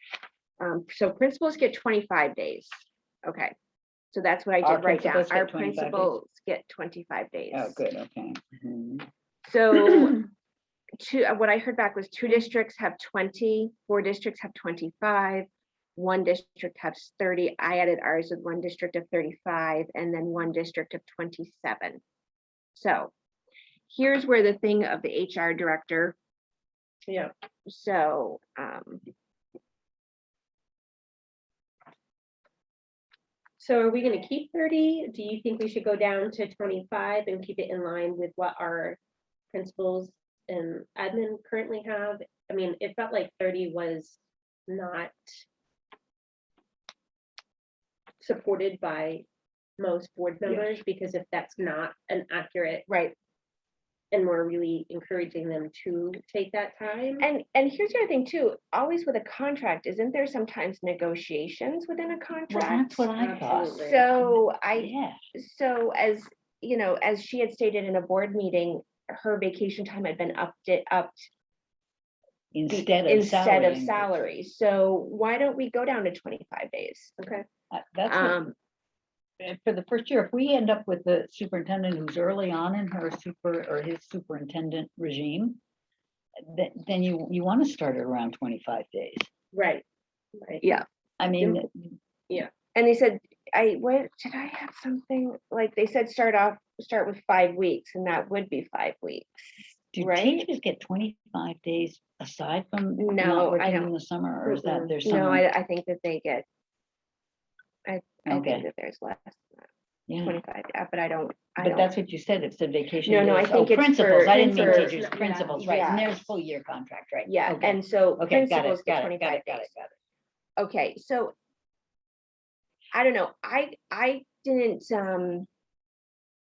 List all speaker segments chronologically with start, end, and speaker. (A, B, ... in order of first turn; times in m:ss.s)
0:00.6-0:02.7 A
0:03.2-0:03.5 A
0:04.1-0:07.8 A
0:04.6-0:06.1 B
0:07.5-0:09.1 B
0:09.4-0:10.3 A
0:11.0-0:22.0 A
0:22.7-0:23.1 A
0:23.9-0:26.1 A
0:27.6-0:29.0 A
0:33.6-0:39.0 C
0:39.5-0:45.4 C
0:48.2-0:49.2 C
0:49.8-0:52.9 C
0:52.9-0:53.1 A
0:54.1-0:57.2 C
0:57.2-1:03.1 A
1:02.5-1:05.2 B
1:03.2-1:04.1 C
1:03.7-1:11.3 A
1:12.5-1:14.1 B
1:12.7-1:17.4 A
1:17.7-1:18.4 B
1:18.1-1:18.5 A
1:19.4-1:25.6 B
1:26.4-1:29.3 B
1:29.5-1:29.8 C
1:30.4-1:30.6 C
1:31.2-1:31.9 B
1:31.4-1:31.6 C
1:32.7-1:40.4 A
1:39.9-1:45.4 B
1:43.0-1:43.9 A
1:44.4-1:46.4 A
1:47.8-1:49.7 A
1:48.3-1:48.6 B
1:50.1-1:50.4 B
1:50.2-1:51.9 A
1:51.6-1:59.9 B
1:53.0-1:54.9 A
1:54.2-1:56.0 C
1:55.6-1:56.2 A
1:57.2-1:59.7 A
2:00.6-2:01.3 A
2:02.9-2:05.5 A